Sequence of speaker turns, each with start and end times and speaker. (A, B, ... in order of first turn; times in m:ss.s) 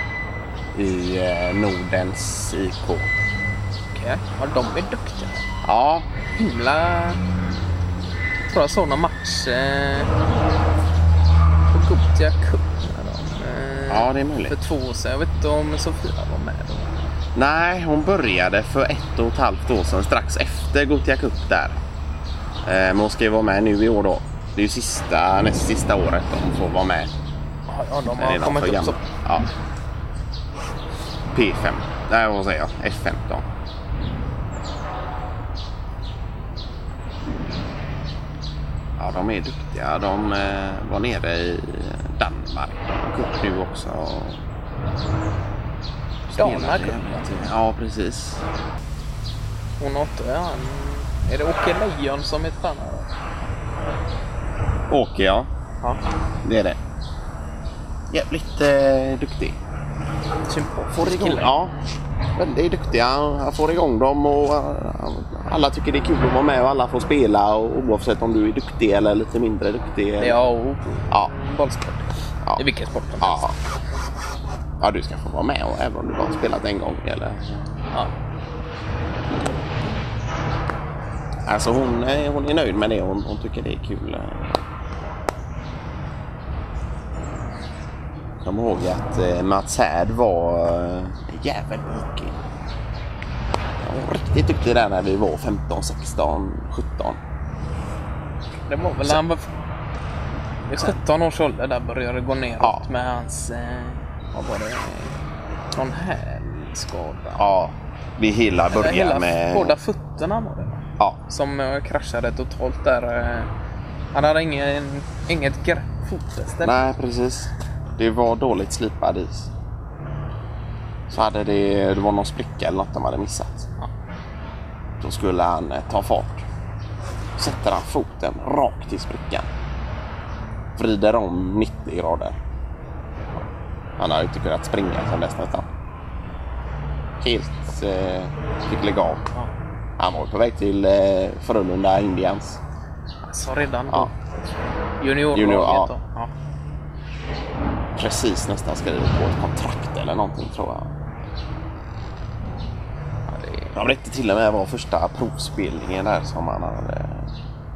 0:00.7-0:03.2 A
0:03.9-0:05.4 B
0:05.6-0:06.1 A
0:06.3-0:07.2 B
0:08.5-0:10.1 B
0:11.7-0:17.1 B
0:13.9-0:14.6 A
0:17.4-0:21.8 A
0:22.6-0:27.1 A
0:27.7-0:29.0 B
0:28.2-0:29.5 A
0:31.3-0:33.4 A
0:39.0-0:44.4 A
0:46.3-0:48.4 A
0:46.4-0:47.4 B
0:49.8-0:53.1 B
0:54.9-0:55.5 A
0:56.4-0:56.8 A
0:58.1-0:59.6 A
1:00.5-1:01.6 B
1:00.9-1:01.8 A
1:02.4-1:10.4 A
1:10.2-1:13.5 B
1:13.2-1:13.5 A
1:14.8-1:17.8 A
1:21.5-1:24.6 A
1:28.4-1:32.4 A
1:33.8-1:37.2 A
1:38.7-1:39.5 B
1:40.7-1:45.2 B
1:42.6-1:42.9 A
1:45.7-1:47.4 B
1:47.4-1:49.8 A
1:48.7-1:53.5 B
1:54.1-1:56.8 B
1:56.6-1:59.5 A
2:01.1-2:03.7 A
2:05.0-2:06.4 A
2:07.4-2:09.5 A
2:10.8-2:12.4 A
2:14.0-2:15.7 A
2:17.2-2:19.3 A
2:20.0-2:22.6 A
2:23.2-2:24.1 B
2:25.0-2:26.3 B
2:25.3-2:25.9 A
2:28.0-2:30.9 A
2:33.3-2:33.7 B
2:33.7-2:37.3 A